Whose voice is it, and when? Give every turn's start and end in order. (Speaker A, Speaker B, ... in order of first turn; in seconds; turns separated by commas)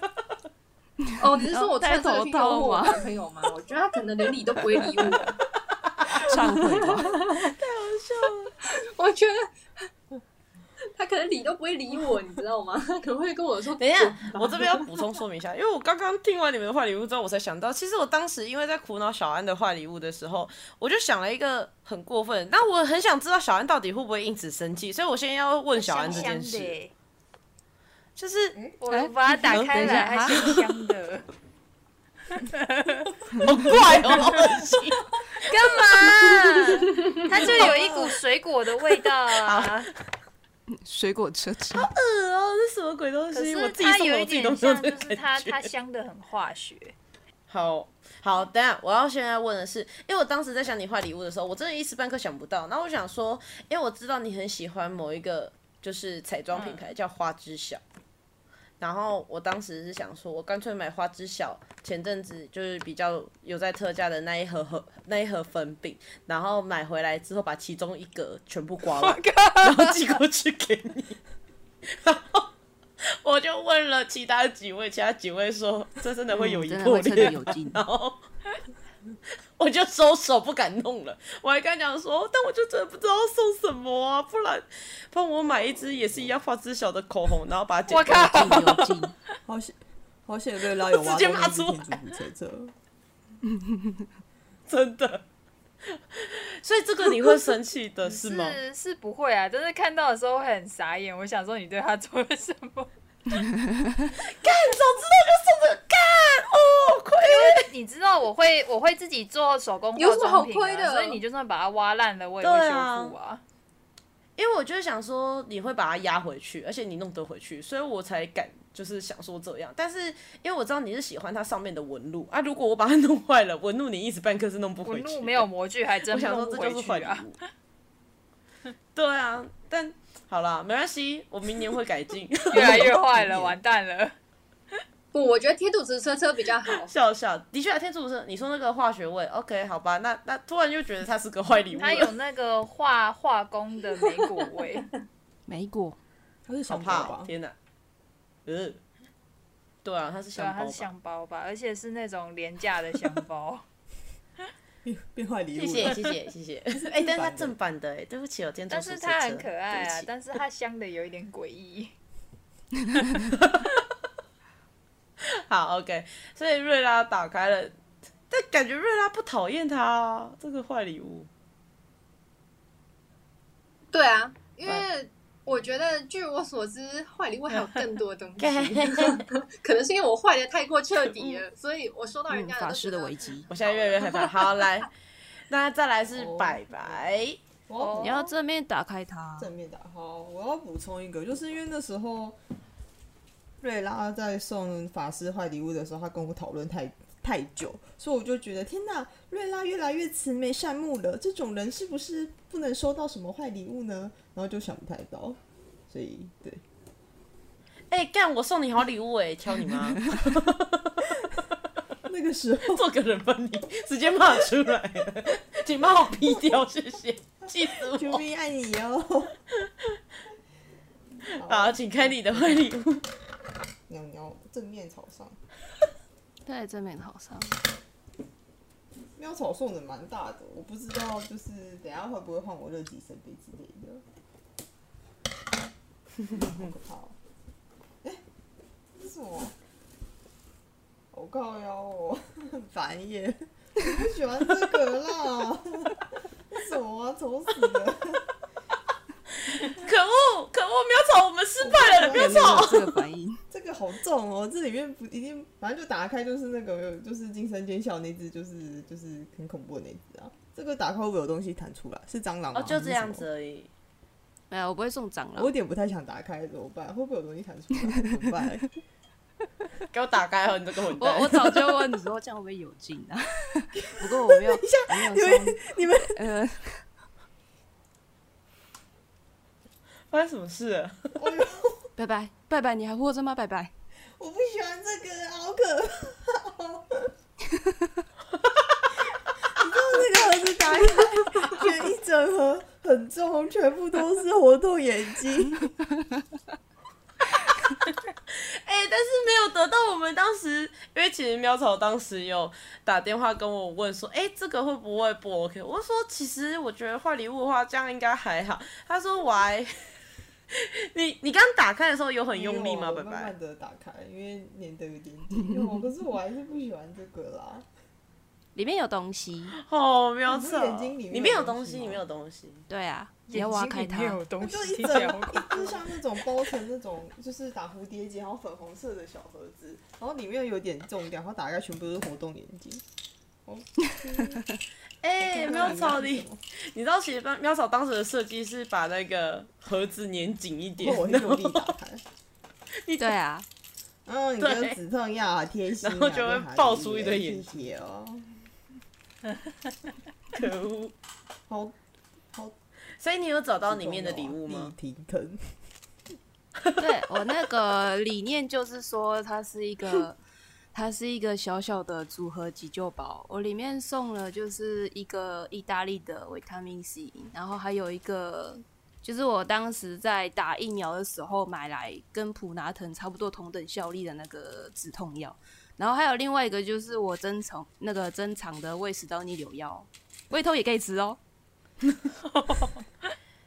Speaker A: 1.2-5.4, Speaker B: 1.3-3.1, Speaker C: 5.8-6.3, Speaker B: 6.2-7.2, Speaker A: 6.3-7.5, Speaker C: 7.4-8.5, Speaker A: 8.8-9.9, Speaker A: 10.9-14.9, Speaker C: 13.8-26.8, Speaker D: 25.7-26.9, Speaker C: 28.2-28.6, Speaker D: 28.8-31.2, Speaker B: 28.9-30.4, Speaker C: 29.3-30.6, Speaker D: 32.3-33.5, Speaker C: 33.4-36.9, Speaker D: 35.4-39.9, Speaker C: 37.4-37.8, Speaker E: 37.5-38.1, Speaker C: 39.4-39.9, Speaker B: 40.7-41.9, Speaker C: 41.7-45.7, Speaker D: 43.3-47.0, Speaker C: 47.5-57.8, Speaker D: 56.5-56.9, Speaker C: 58.8-71.2, Speaker D: 68.9-70.2, Speaker C: 71.9-72.5, Speaker C: 73.2-78.2, Speaker B: 76.3-77.8, Speaker C: 79.6-88.8, Speaker D: 87.9-89.1, Speaker B: 88.3-89.1, Speaker E: 89.5-92.7, Speaker C: 91.0-92.0, Speaker C: 94.7-95.2, Speaker C: 95.9-98.6, Speaker D: 98.0-102.9, Speaker C: 104.2-107.7, Speaker D: 107.2-113.4, Speaker A: 110.0-111.2, Speaker C: 112.4-113.2, Speaker C: 114.4-125.5, Speaker D: 124.8-127.3, Speaker C: 126.1-127.4, Speaker C: 128.9-133.0, Speaker D: 132.5-134.1, Speaker E: 133.1-133.6, Speaker A: 135.1-136.9, Speaker C: 136.7-142.1, Speaker D: 141.7-144.9, Speaker B: 145.5-146.0, Speaker E: 146.5-147.3, Speaker C: 146.7-147.6, Speaker C: 148.5-148.8, Speaker C: 149.8-150.9, Speaker D: 150.3-153.6, Speaker E: 154.8-156.1, Speaker C: 155.6-160.1, Speaker E: 156.7-157.6, Speaker D: 158.7-161.9, Speaker C: 163.3-163.7, Speaker C: 165.3-167.8, Speaker C: 168.3-171.3, Speaker A: 173.9-184.7, Speaker C: 178.4-179.2, Speaker C: 181.1-181.4, Speaker B: 182.3-183.5, Speaker C: 183.5-184.9, Speaker C: 185.5-187.4, Speaker E: 186.1-187.0, Speaker E: 187.7-188.2, Speaker D: 187.8-188.3, Speaker B: 188.0-189.5, Speaker E: 189.4-192.4, Speaker E: 193.6-206.6, Speaker C: 207.9-211.1, Speaker E: 212.1-212.9, Speaker C: 212.7-218.2, Speaker E: 217.7-219.3, Speaker C: 221.3-223.1, Speaker E: 221.4-222.8, Speaker E: 223.9-225.4, Speaker B: 226.5-227.6, Speaker E: 229.2-234.0, Speaker E: 236.3-237.2, Speaker E: 238.9-239.6, Speaker E: 241.1-248.3, Speaker C: 249.5-252.9, Speaker E: 251.6-252.8, Speaker B: 252.0-253.4, Speaker E: 253.5-263.2, Speaker C: 262.5-263.7, Speaker B: 264.5-265.5, Speaker E: 265.4-268.7, Speaker C: 269.9-271.7, Speaker B: 271.0-276.8, Speaker E: 273.9-276.2, Speaker C: 280.1-281.2, Speaker E: 281.2-281.9, Speaker B: 282.0-283.7, Speaker E: 284.2-287.1, Speaker E: 289.6-295.7, Speaker C: 298.3-309.7, Speaker C: 310.5-313.3, Speaker E: 312.3-317.7, Speaker B: 318.6-319.6, Speaker C: 319.6-322.7, Speaker E: 320.3-322.0, Speaker B: 322.7-324.2, Speaker D: 323.3-325.9, Speaker E: 324.4-332.8, Speaker E: 333.5-334.5, Speaker B: 333.9-334.4, Speaker C: 335.0-341.7, Speaker E: 335.2-336.4, Speaker E: 340.8-342.0, Speaker C: 342.8-343.2, Speaker B: 343.0-343.5, Speaker E: 344.1-348.4, Speaker C: 344.4-344.8, Speaker C: 345.8-347.5, Speaker C: 350.3-350.9, Speaker E: 351.5-351.8, Speaker C: 353.0-354.7, Speaker E: 353.6-355.6, Speaker B: 356.8-360.2, Speaker B: 360.7-381.2, Speaker C: 382.3-382.6